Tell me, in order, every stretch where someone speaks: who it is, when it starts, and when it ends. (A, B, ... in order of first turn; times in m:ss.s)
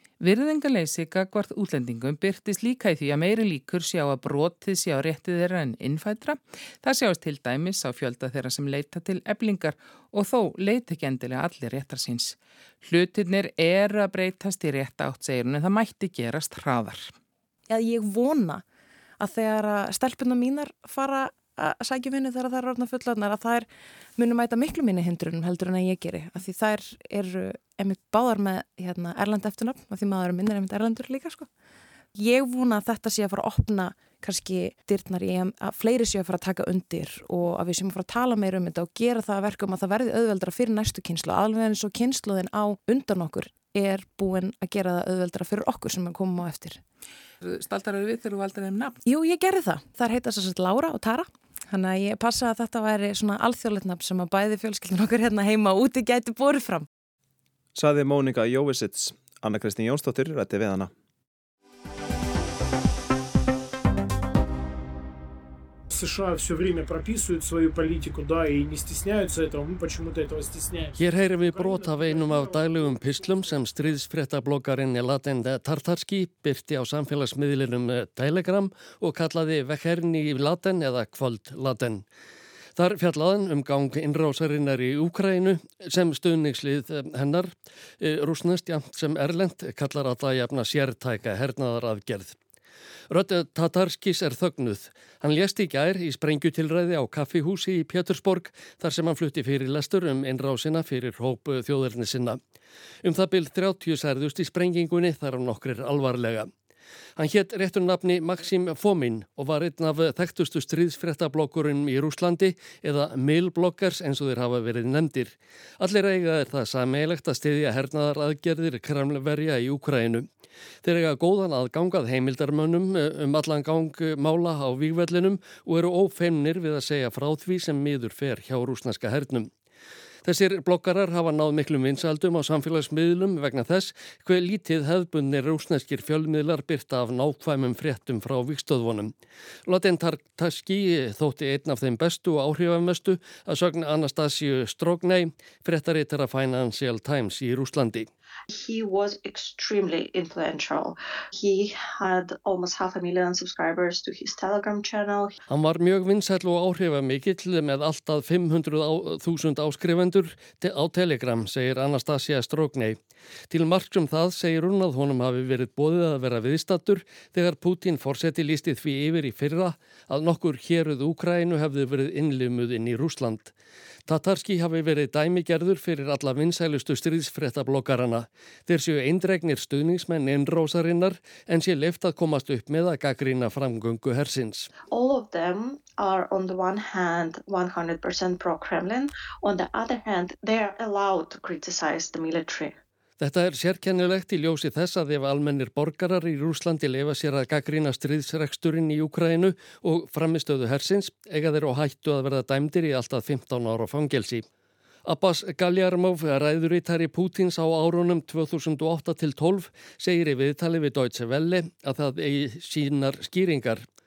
0:00.2-0:17.1 A
0:17.7-0:18.6 B
0:19.2-0:31.5 B
0:32.2-0:46.8 B
0:47.4-0:49.0 A
0:49.0-0:56.9 B
0:57.8-1:00.9 C
1:05.9-1:13.5 D
1:11.0-1:22.0 E
1:22.8-1:32.4 E
1:33.1-1:42.4 E
1:43.0-1:46.5 E
1:47.2-2:00.3 E
2:00.8-2:09.5 E
2:10.2-2:19.1 E
2:19.7-2:28.1 E
2:28.5-2:35.4 F
2:35.5-2:43.0 E
2:43.5-2:53.5 E
2:54.1-3:04.7 E
3:04.9-3:12.8 F
3:13.2-3:24.4 E
3:25.0-3:33.8 E